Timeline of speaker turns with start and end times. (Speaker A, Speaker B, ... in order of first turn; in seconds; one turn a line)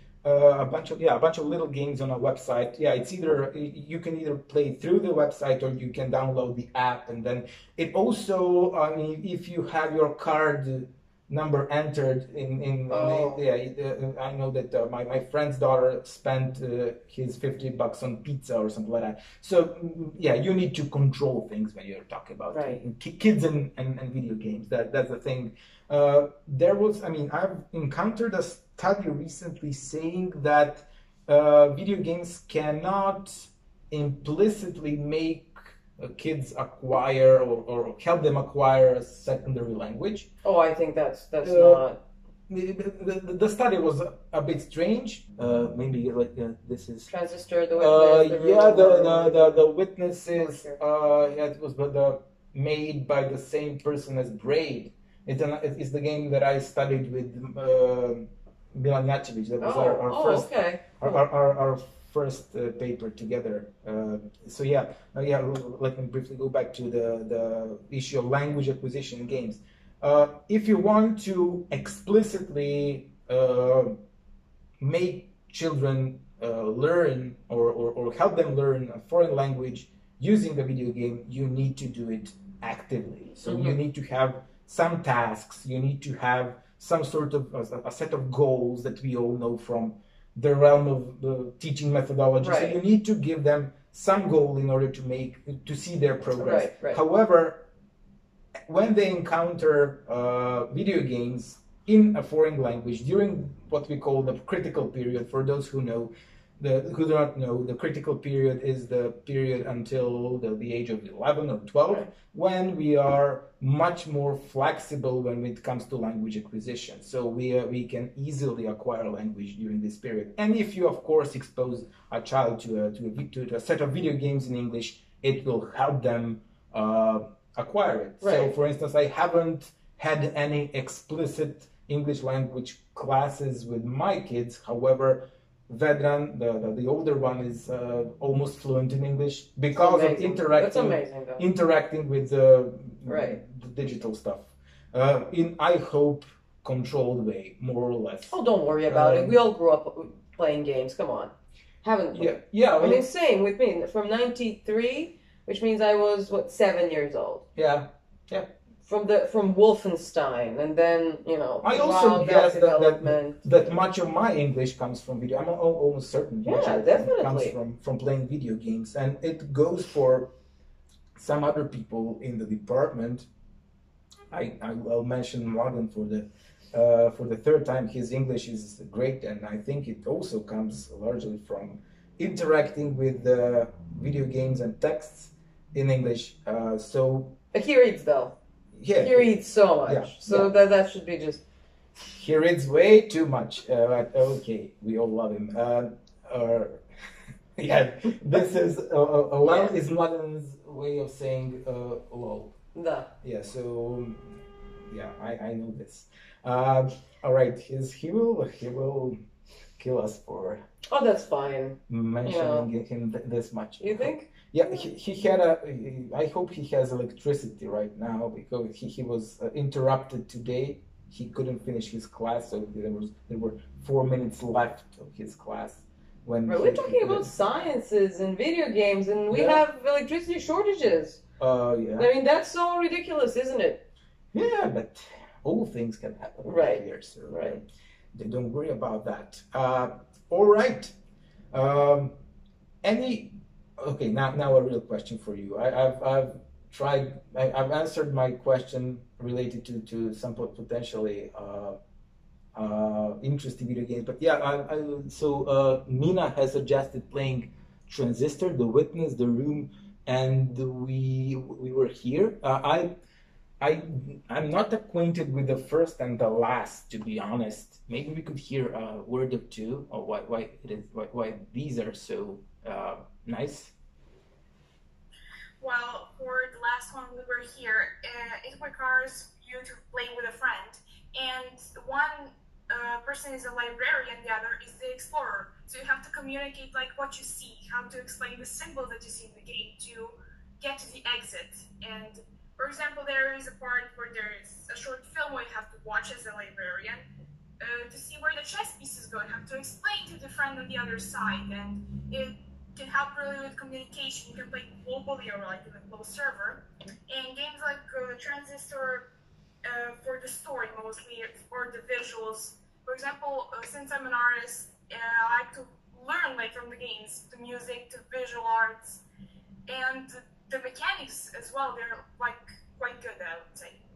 Speaker A: 0.2-40.3
Speaker B: 12.9-13.4
Speaker B: 22.5-22.8
Speaker B: 40.4-42.0
Speaker A: 41.4-41.8
Speaker A: 42.5-47.1
Speaker B: 47.1-49.6
Speaker A: 47.8-74.0
Speaker B: 50.4-50.8
Speaker B: 59.6-61.2
Speaker A: 74.8-97.7
Speaker B: 83.5-83.8
Speaker B: 92.4-92.8
Speaker B: 96.4-97.0
Speaker A: 98.7-149.4
Speaker B: 128.2-128.5
Speaker B: 139.8-141.4
Speaker B: 143.1-143.4
Speaker B: 148.3-151.3
Speaker B: 151.8-157.4
Speaker A: 152.1-153.0
Speaker A: 157.6-158.5
Speaker B: 158.8-163.4
Speaker A: 161.6-170.3
Speaker B: 166.4-167.6
Speaker A: 171.2-173.3
Speaker A: 174.3-187.4
Speaker B: 187.5-188.4
Speaker A: 188.8-189.3
Speaker B: 189.0-191.4
Speaker A: 189.8-190.5
Speaker A: 192.1-196.8
Speaker A: 197.6-202.5
Speaker B: 202.8-203.1
Speaker A: 203.2-204.3
Speaker A: 204.9-209.2
Speaker A: 209.8-210.6
Speaker B: 210.9-212.7
Speaker A: 211.9-227.3
Speaker B: 213.8-214.3
Speaker B: 226.5-231.2
Speaker A: 229.3-229.6
Speaker A: 231.4-232.1
Speaker B: 232.0-233.8
Speaker A: 234.3-240.9
Speaker B: 236.4-237.6
Speaker A: 241.5-242.1
Speaker A: 242.8-251.8
Speaker A: 252.6-262.9
Speaker A: 263.6-273.7
Speaker C: 275.6-297.0
Speaker C: 297.6-309.1
Speaker C: 309.6-319.0
Speaker C: 319.7-323.8